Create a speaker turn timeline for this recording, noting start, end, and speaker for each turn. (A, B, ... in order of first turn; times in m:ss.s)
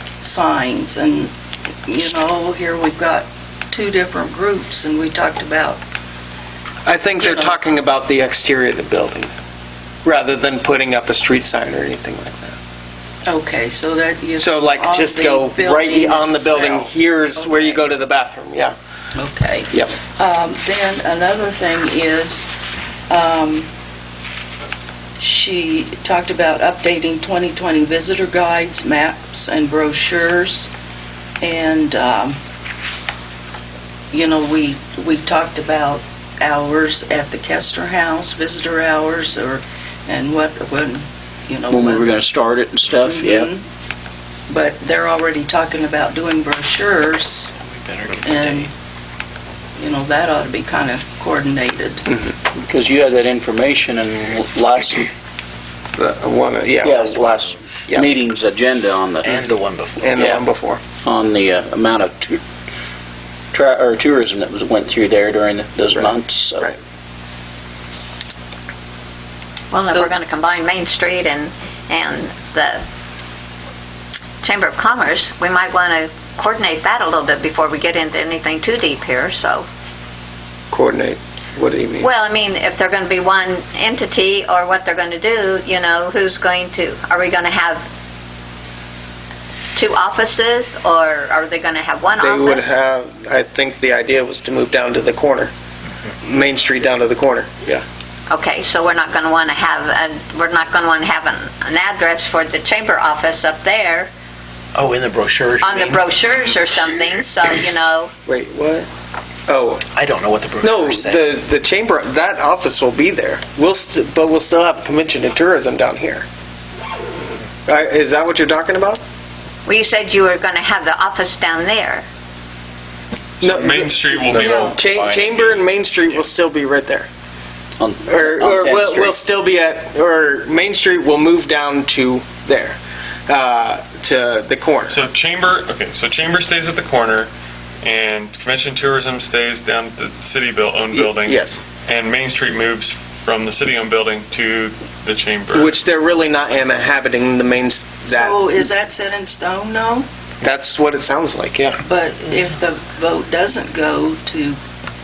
0:00.2-0:01.3 A
0:01.8-0:05.8 A
0:06.8-0:09.3 B
0:07.2-0:07.6 A
0:10.0-0:12.6 B
0:13.2-0:17.9 A
0:14.4-0:18.7 B
0:19.1-0:22.5 A
0:23.1-0:23.7 A
0:25.2-0:30.7 A
0:31.4-0:32.4 A
0:34.1-0:42.1 A
0:41.7-0:43.5 C
0:43.0-0:43.6 A
0:44.5-0:47.5 A
0:47.6-0:48.7 D
0:48.2-0:48.7 A
0:49.8-0:52.1 A
0:52.6-0:55.1 C
0:56.0-0:58.1 B
0:56.8-0:59.4 C
0:59.2-1:00.3 D
1:00.0-1:00.8 B
1:00.2-1:00.4 C
1:01.0-1:02.4 C
1:03.5-1:06.7 C
1:09.7-1:12.8 E
1:14.4-1:19.7 E
1:20.7-1:22.1 B
1:22.0-1:27.8 E
1:29.7-1:32.8 E
1:32.2-1:35.5 B
1:36.2-1:37.8 B
1:38.3-1:44.1 E
1:44.7-1:46.0 D
1:45.6-1:48.1 E
1:48.2-1:48.9 B
1:49.5-1:49.8 B
1:49.9-1:51.2 D
1:50.6-1:56.2 B
1:57.7-1:59.0 B
1:59.6-2:02.0 E
2:03.4-2:06.2 F
2:03.4-2:07.1 B
2:07.8-2:09.2 C
2:08.1-2:15.0 B
2:14.9-2:17.3 F
2:17.8-2:25.7 F
2:20.9-2:21.6 B
2:25.5-2:28.6 B
2:28.1-2:30.1 A
2:30.4-2:31.8 B
2:31.8-2:34.6 A